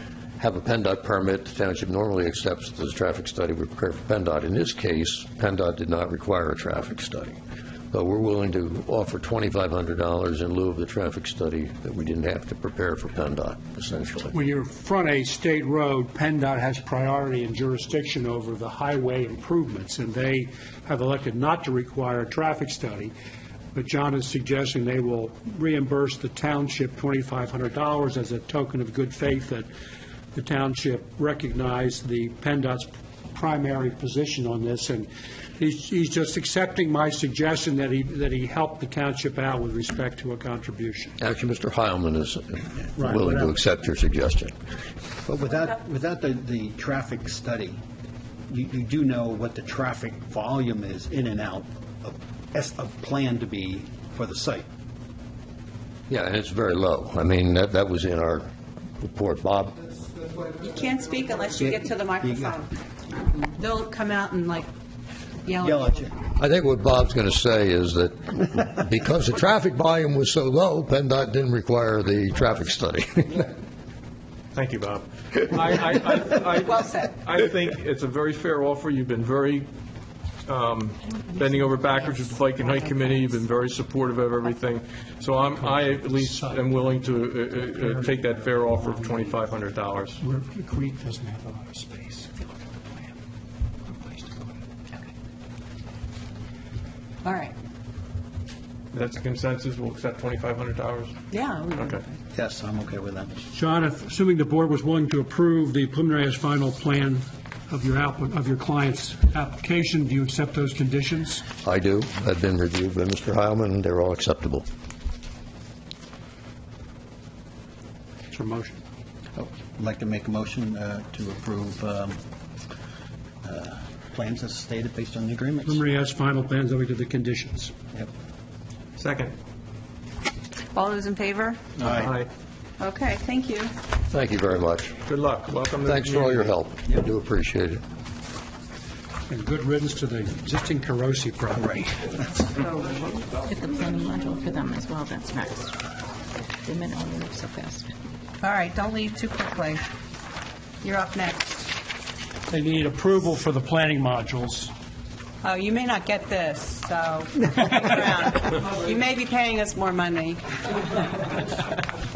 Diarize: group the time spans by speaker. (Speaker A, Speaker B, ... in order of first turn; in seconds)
Speaker A: 0.4-7.4, 7.9-14.3, 41.2-44.5, 56.1-58.5, 59.0-59.8, 66.3-73.5, 111.6-114.7, 134.1-134.9, 135.8-137.8
Speaker B: 14.3-23.1, 23.7-29.7, 30.3-41.1, 43.0-43.5, 85.4-86.8, 87.5-89.3, 90.2-92.5, 93.9-94.5, 103.5-111.4, 118.3-118.8, 125.7-127.7, 139.3-142.1, 152.5-154.7
Speaker C: 45.2-47.8, 48.5-54.6, 61.7-62.6, 65.6-66.1, 102.3-103.4, 119.3-122.2, 123.4-125.8, 131.8-132.1, 141.6-141.8
Speaker D: 60.6-62.7, 63.4-64.7, 65.4-66.0, 76.8-77.1, 97.2-97.5, 101.3-102.1, 130.7-131.6, 132.8-133.7, 148.4-149.8, 150.8-151.7, 155.4-161.3
Speaker E: 74.5-79.7, 80.5-90.2, 98.9-101.1, 101.8-102.0, 129.0-129.3, 131.8-132.3, 135.0-136.5
Speaker F: 142.7-145.7, 146.6-147.9